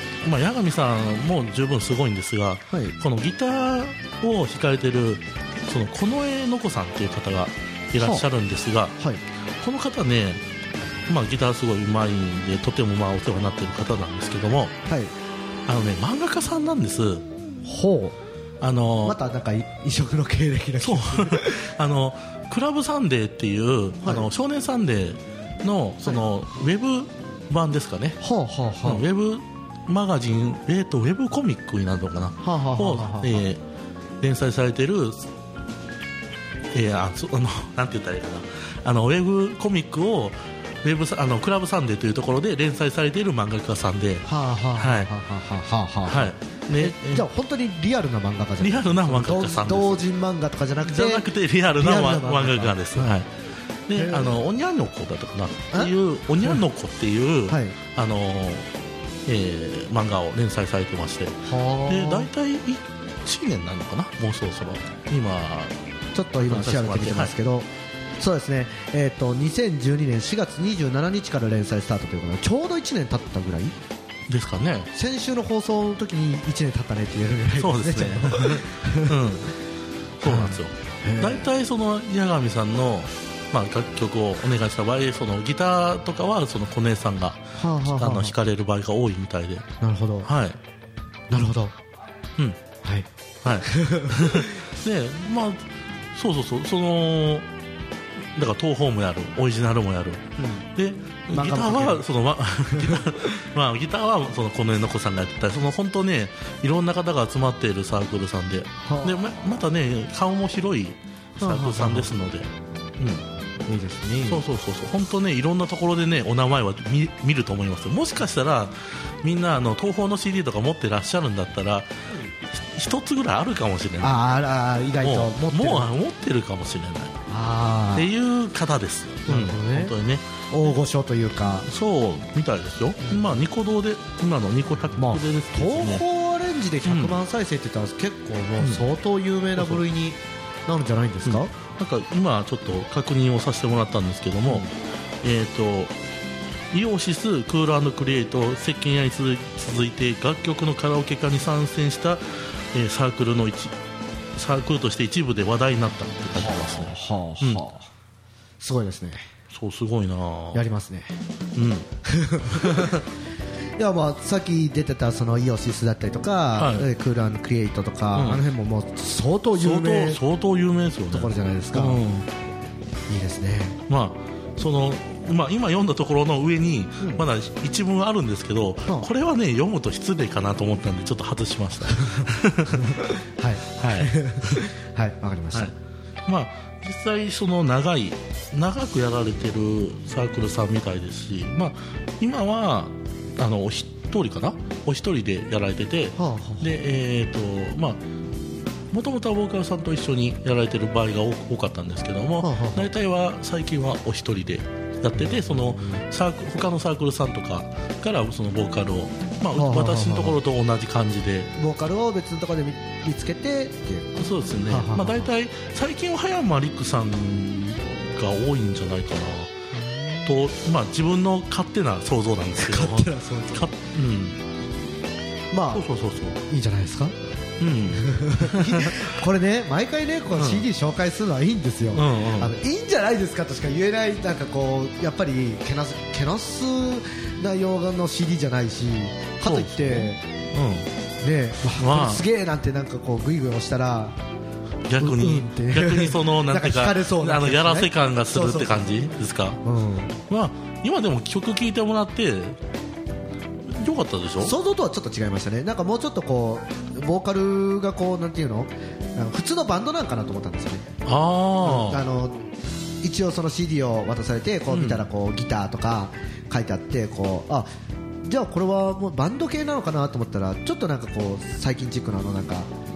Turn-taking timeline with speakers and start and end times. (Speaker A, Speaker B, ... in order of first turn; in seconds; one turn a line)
Speaker A: 0.2-9.0
Speaker B: 8.0-8.3
Speaker A: 9.6-10.4
Speaker A: 11.1-14.8
Speaker A: 15.7-17.2
Speaker B: 17.6-18.2
Speaker A: 18.6-19.2
Speaker B: 19.0-21.7
Speaker A: 20.8-28.2
Speaker B: 24.0-24.3
Speaker B: 28.2-29.1
Speaker A: 28.8-33.6
Speaker B: 32.4-33.4
Speaker A: 34.2-35.3
Speaker A: 36.7-45.1
Speaker B: 44.3-53.2
Speaker A: 46.1-47.3
Speaker A: 48.6-50.0
Speaker A: 50.9-53.3
Speaker A: 53.9-58.7
Speaker B: 54.0-54.4
Speaker B: 55.7-56.6
Speaker B: 57.5-57.8
Speaker A: 59.3-65.8
Speaker B: 61.5-62.3
Speaker B: 66.1-73.8
Speaker A: 66.4-67.3
Speaker A: 74.3-74.9
Speaker B: 74.9-79.2
Speaker A: 77.6-79.6
Speaker A: 80.2-89.7
Speaker B: 80.2-81.5
Speaker B: 87.6-88.3
Speaker B: 89.8-90.3
Speaker A: 90.2-90.6
Speaker B: 91.3-91.7
Speaker A: 93.4-95.6
Speaker B: 93.6-94.5
Speaker A: 96.2-97.5
Speaker A: 98.3-100.2
Speaker B: 100.4-100.7
Speaker A: 100.8-113.2
Speaker B: 101.3-102.0
Speaker B: 102.7-103.2
Speaker B: 108.8-109.2
Speaker B: 111.4-112.1
Speaker B: 113.7-114.4
Speaker A: 114.2-121.9
Speaker A: 122.6-124.2
Speaker B: 124.0-125.9
Speaker A: 125.0-127.2
Speaker B: 127.3-128.1
Speaker A: 128.0-130.8
Speaker B: 129.3-129.9
Speaker B: 130.5-131.7
Speaker A: 131.7-136.0
Speaker B: 133.1-133.4
Speaker B: 135.0-141.5
Speaker A: 136.8-137.2
Speaker A: 141.2-144.7
Speaker A: 145.2-145.9
Speaker A: 146.7-153.7
Speaker A: 154.4-157.6
Speaker B: 156.3-157.9
Speaker B: 158.6-159.3
Speaker A: 159.5-160.6
Speaker B: 160.5-161.2
Speaker A: 161.6-161.9
Speaker B: 162.1-163.0
Speaker A: 162.5-163.0
Speaker B: 163.8-170.2
Speaker A: 166.6-166.9
Speaker A: 168.2-168.4
Speaker A: 169.6-172.3
Speaker B: 171.1-172.0
Speaker B: 173.1-173.8
Speaker A: 173.9-183.1
Speaker B: 182.1-185.7
Speaker A: 183.8-184.6
Speaker A: 186.3-198.0
Speaker B: 196.2-196.7
Speaker A: 198.9-211.5
Speaker B: 202.4-202.9
Speaker B: 205.2-206.0
Speaker B: 209.5-210.4
Speaker B: 211.6-215.3
Speaker A: 214.2-219.5
Speaker B: 219.7-220.4
Speaker A: 220.2-224.4
Speaker B: 222.6-223.7
Speaker B: 225.5-225.8
Speaker A: 225.7-226.4
Speaker B: 226.5-227.2
Speaker A: 227.6-229.1
Speaker B: 227.9-240.2
Speaker A: 230.4-230.7
Speaker A: 231.9-232.5
Speaker A: 239.4-240.9
Speaker B: 241.2-244.2
Speaker A: 241.8-242.2
Speaker A: 244.9-249.6
Speaker B: 245.0-249.1
Speaker B: 249.6-250.2
Speaker A: 250.3-252.6
Speaker A: 253.7-254.5
Speaker B: 254.4-260.9
Speaker A: 261.1-262.0
Speaker B: 261.6-262.4
Speaker B: 263.0-267.7
Speaker A: 264.7-265.0
Speaker B: 268.2-272.7